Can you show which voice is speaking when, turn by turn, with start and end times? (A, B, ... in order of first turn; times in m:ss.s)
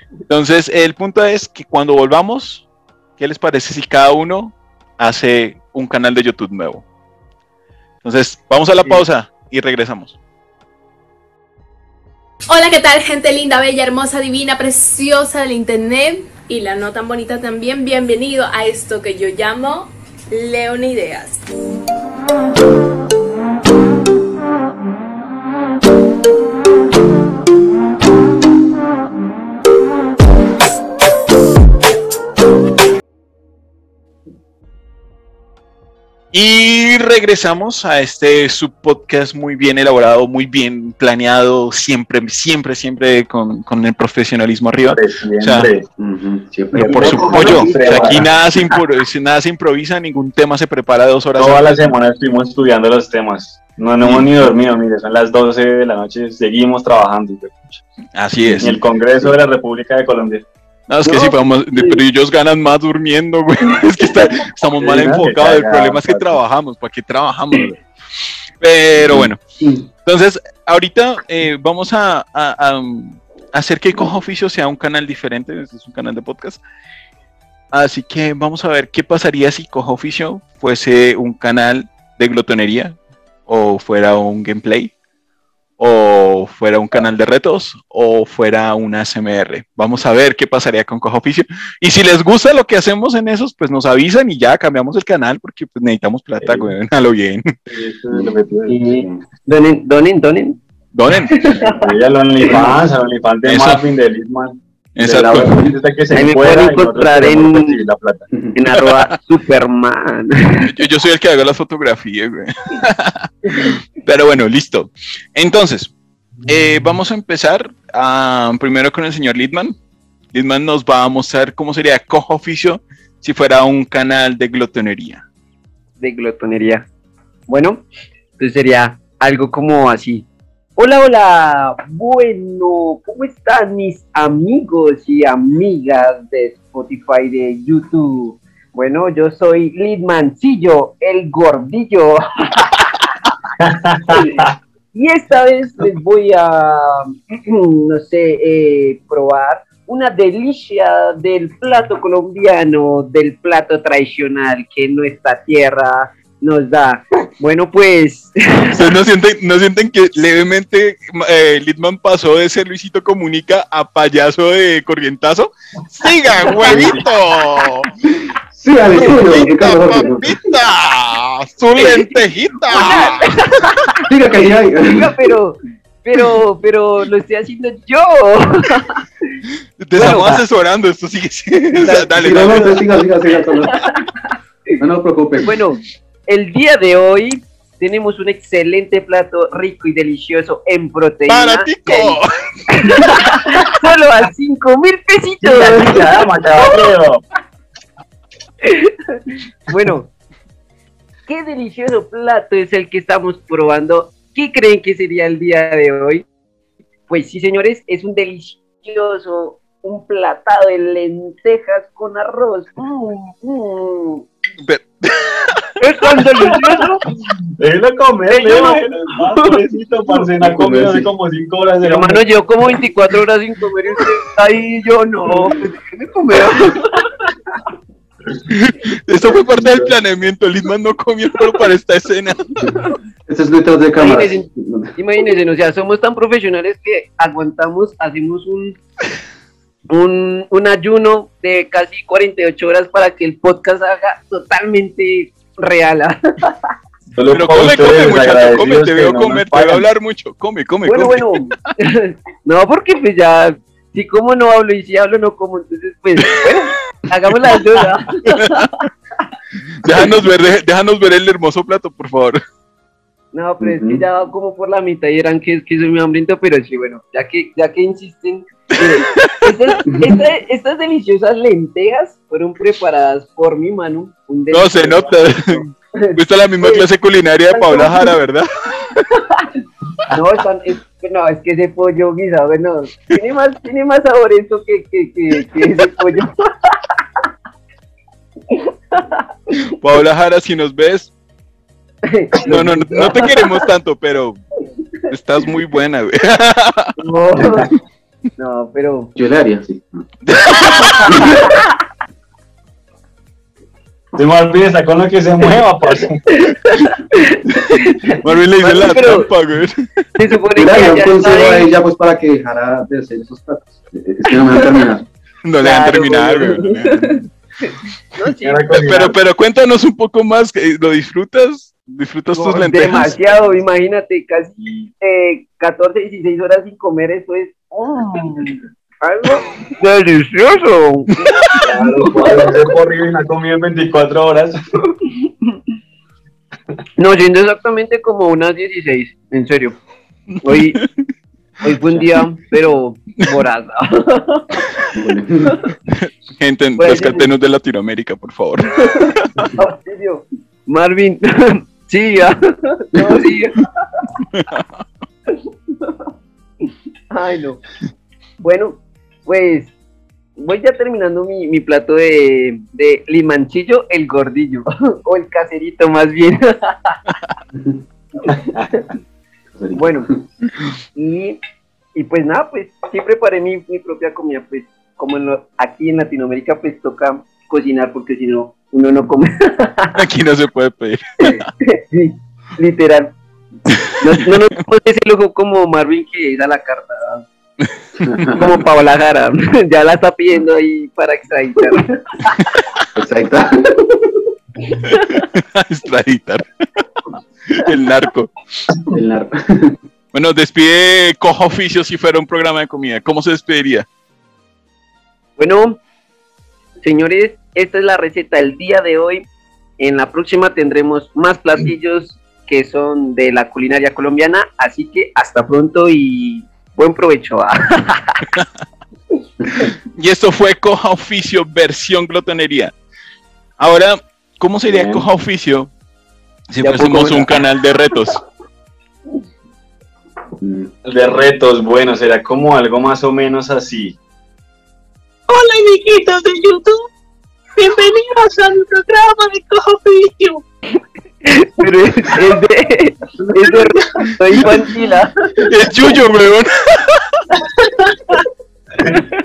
0:00.3-0:02.6 A
0:03.2-0:06.8 A
0:08.0-0:10.2 A
0:12.5-0:21.4 B
0:36.3-0:45.7 A
0:44.9-0:45.8 C
0:46.0-0:48.3 D
0:46.7-0:48.3 C
0:46.9-0:51.9 A
0:51.4-0:57.8 C
0:54.0-0:54.3 A
0:58.1-0:58.8 A
0:58.4-0:58.7 D
0:58.6-1:00.4 C
1:00.9-1:07.8 A
1:01.0-1:01.3 E
1:04.8-1:06.4 C
1:08.6-1:09.4 A
1:09.0-1:09.9 D
1:10.0-1:16.6 A
1:17.7-1:23.0 A
1:23.5-1:24.9 A
1:25.8-1:37.4 A
1:36.4-1:36.7 C
1:37.7-1:38.8 C
1:38.7-1:40.6 E
1:38.9-1:39.2 D
1:40.9-1:41.5 A
1:41.3-1:41.8 E
1:41.7-1:48.3 C
1:43.4-1:43.8 A
1:45.0-1:45.7 A
1:45.2-1:45.7 D
1:46.1-1:47.8 E
1:48.5-1:50.7 E
1:50.6-1:55.9 A
1:56.4-1:59.7 A
2:00.3-2:05.2 A
2:06.0-2:06.8 E
2:07.5-2:07.8 E
2:08.4-2:10.2 E
2:10.8-2:22.7 E
2:23.6-2:24.5 C
2:24.9-2:38.8 E
2:38.7-2:47.9 A
2:46.6-2:47.0 C
2:48.5-2:50.3 D
2:48.9-2:53.7 A
2:51.8-2:52.1 E
2:52.7-2:53.9 E
2:54.1-2:55.1 D
2:54.8-2:59.0 E
2:59.8-3:02.8 A
3:00.0-3:00.3 E
3:01.8-3:02.1 E
3:02.1-3:03.8 D
3:04.8-3:05.5 D
3:05.4-3:12.2 E
3:11.3-3:12.3 A
3:12.7-3:16.2 E
3:15.4-3:17.2 C
3:18.6-3:19.0 E
3:19.7-3:20.1 E
3:21.3-3:26.2 E
3:27.1-3:34.2 E
3:34.6-3:35.7 A
3:35.8-3:37.0 E
3:37.6-3:42.2 C
3:38.3-3:39.5 E
3:40.5-3:40.8 E
3:40.6-3:41.0 D
3:41.8-3:47.0 E
3:48.5-3:52.5 A
3:53.3-3:54.9 D
3:54.0-3:58.8 E
3:59.9-4:06.5 E
4:07.2-4:09.9 C
4:07.3-4:11.4 A
4:10.8-4:18.7 E
4:18.3-4:18.7 A
4:19.8-4:22.4 A
4:23.3-4:36.9 E
4:23.6-4:24.0 D
4:28.7-4:29.4 A
4:29.9-4:30.1 D
4:34.5-4:39.0 A
4:37.5-4:38.1 E
4:40.1-4:46.8 E
4:48.5-4:49.2 E
4:49.7-4:51.1 A
4:52.0-4:53.6 E
4:52.4-4:54.4 A
4:55.1-4:56.9 A
4:57.0-4:57.7 E
4:57.4-4:57.7 C
4:58.4-4:59.1 E
4:59.2-5:00.0 D
5:00.2-5:01.2 A
5:01.1-5:01.5 E
5:01.1-5:01.4 D
5:04.1-5:06.3 C
5:06.4-5:09.3 E
5:08.2-5:09.7 A
5:10.2-5:11.7 E
5:10.5-5:15.0 D
5:15.4-5:17.2 A
5:15.6-5:18.9 E
5:18.4-5:19.2 C
5:18.7-5:23.4 A
5:22.3-5:31.6 E
5:31.6-5:34.6 C
5:32.1-5:32.6 E
5:37.0-5:39.8 E
5:40.3-5:40.9 A
5:40.4-5:40.8 E
5:41.6-5:44.6 E
5:44.9-5:45.5 D
5:46.4-5:49.3 A
5:46.8-5:47.3 E
5:48.8-5:53.6 E
5:53.0-5:53.2 D
5:54.3-5:54.6 A
5:57.1-5:57.6 E
5:58.4-5:59.7 E
6:00.4-6:07.0 E
6:07.5-6:07.8 D
6:08.3-6:08.9 C
6:09.5-6:10.2 D
6:09.7-6:10.1 E
6:11.0-6:11.4 E
6:11.9-6:20.0 E
6:19.9-6:21.5 A
6:21.2-6:23.1 E
6:24.0-6:27.2 E
6:28.0-6:28.6 D
6:28.3-6:32.3 E
6:32.9-6:33.9 D
6:34.7-6:35.2 E
6:34.9-6:36.4 A
6:37.5-6:38.3 A
6:38.9-6:39.8 D
6:40.1-6:43.8 A
6:45.4-6:45.8 E
6:46.8-6:49.2 E
6:49.8-6:58.2 E
6:59.6-7:02.7 A
7:03.6-7:05.7 A
7:04.7-7:05.1 C
7:06.5-7:08.2 A
7:06.6-7:07.4 E
7:10.4-7:10.7 D
7:10.8-7:14.0 C
7:15.3-7:16.9 F
7:17.6-7:20.4 F
7:21.2-7:25.5 E
7:25.4-7:27.2 A
7:27.3-7:28.2 C